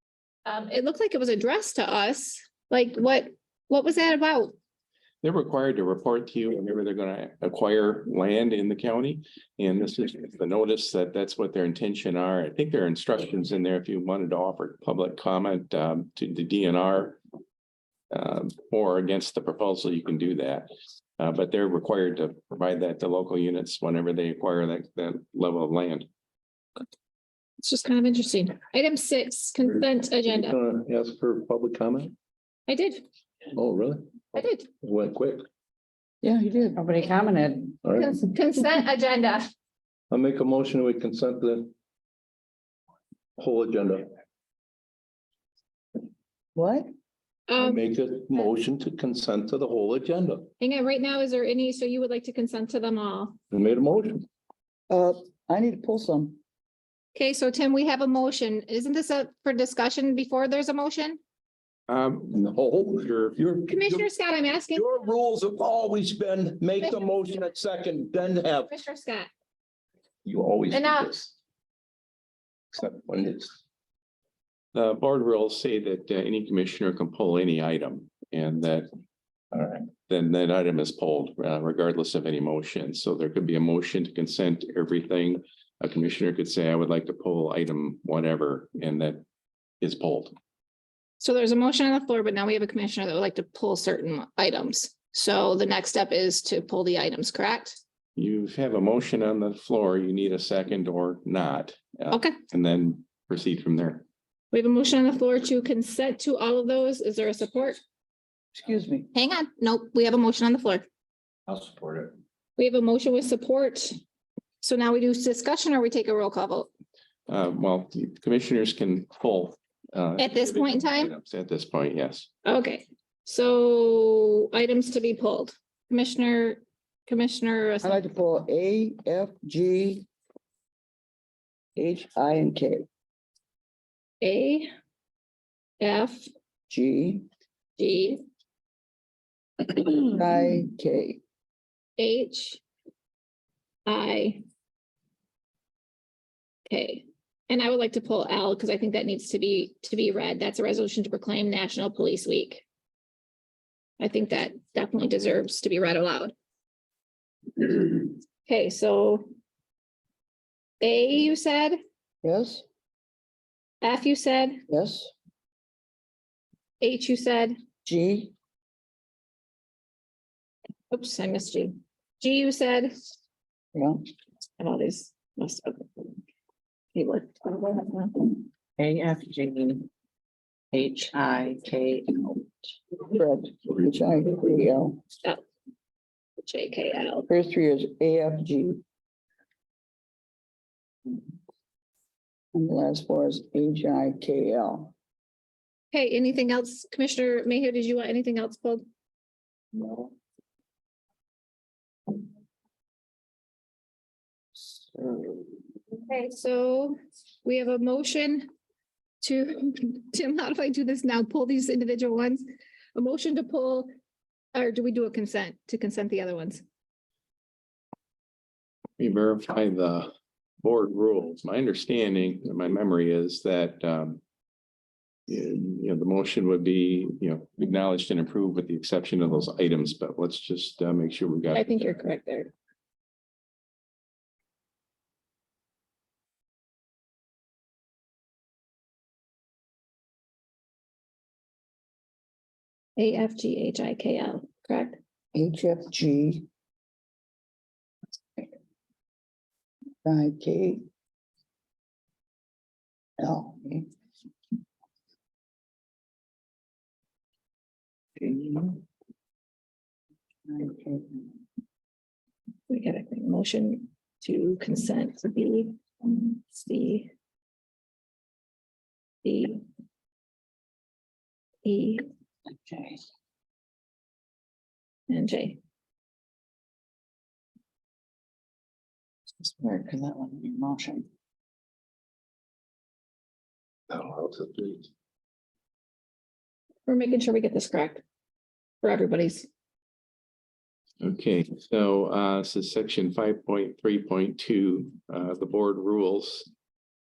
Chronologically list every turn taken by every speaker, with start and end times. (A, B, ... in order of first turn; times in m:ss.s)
0:00.5-0:04.5 A
0:05.2-0:17.2 B
0:18.1-0:20.7 B
0:21.2-0:26.1 B
0:27.6-0:30.5 A
0:29.8-0:32.1 C
0:32.7-0:33.0 A
0:33.5-0:35.5 C
0:34.4-0:34.7 A
0:36.2-0:37.1 D
0:37.0-0:37.6 E
0:37.8-0:38.1 C
0:38.0-0:39.5 A
0:40.1-0:41.7 C
0:43.4-0:44.1 C
0:46.6-0:46.9 D
0:47.5-0:47.8 A
0:47.6-0:50.5 C
0:50.6-0:53.4 A
0:53.5-0:54.3 C
0:54.9-0:56.4 D
0:57.2-1:01.2 A
1:01.9-1:02.3 B
1:02.3-1:04.1 C
1:03.0-1:03.4 B
1:03.7-1:05.0 A
1:04.7-1:08.7 C
1:06.8-1:07.3 A
1:08.7-1:09.3 A
1:10.2-1:11.3 C
1:10.7-1:11.1 A
1:12.7-1:13.6 C
1:14.7-1:18.9 B
1:19.5-1:19.9 C
1:20.1-1:29.2 B
1:29.8-1:30.3 B
1:31.2-1:37.8 A
1:38.2-1:44.0 B
1:42.1-1:42.4 A
1:44.5-1:47.8 A
1:48.6-1:49.1 D
1:49.1-1:50.8 A
1:51.6-1:52.1 C
1:52.6-1:54.0 A
1:54.6-1:56.7 A
1:57.3-2:02.3 B
2:00.2-2:01.1 A
2:02.4-2:08.0 A
2:07.8-2:10.1 D
2:11.8-2:12.8 D
2:14.2-2:14.7 A
2:15.8-2:16.3 A
2:16.7-2:17.2 D
2:17.8-2:18.2 A
2:19.6-2:21.2 D
2:22.0-2:22.6 A
2:23.9-2:24.4 A
2:26.7-2:32.6 A
2:34.0-2:36.3 A
2:37.6-2:39.3 A
2:40.8-2:41.8 A
2:42.2-2:42.6 D
2:43.8-2:44.6 A
2:44.7-2:45.1 D
2:46.8-2:47.6 A
2:47.8-2:48.3 D
2:50.9-2:53.0 A
2:53.8-2:54.0 D
2:54.6-2:56.2 A
2:56.9-2:58.4 A
2:58.8-2:59.9 E
3:00.7-3:02.1 E
3:03.1-3:05.0 D
3:06.4-3:07.3 A
3:07.3-3:08.8 D
3:12.6-3:14.9 D
3:15.9-3:18.8 A
3:25.0-3:25.3 D
3:26.0-3:28.5 A
3:29.2-3:32.4 A
3:33.0-3:33.9 A
3:34.6-3:36.6 A
3:39.0-3:44.2 B
3:45.3-3:52.0 B
3:51.5-3:52.5 A
4:03.0-4:05.0 A
4:05.3-4:06.5 D
4:10.0-4:10.8 D
4:13.2-4:13.9 D
4:18.2-4:18.8 D
4:20.5-4:21.3 D
4:22.7-4:27.1 A
4:29.2-4:29.6 A
4:31.6-4:32.0 A
4:35.1-4:35.6 A
4:39.4-4:41.0 D
4:43.9-4:44.9 C
4:46.9-4:48.0 A
4:48.8-4:49.5 A
4:51.0-4:56.5 B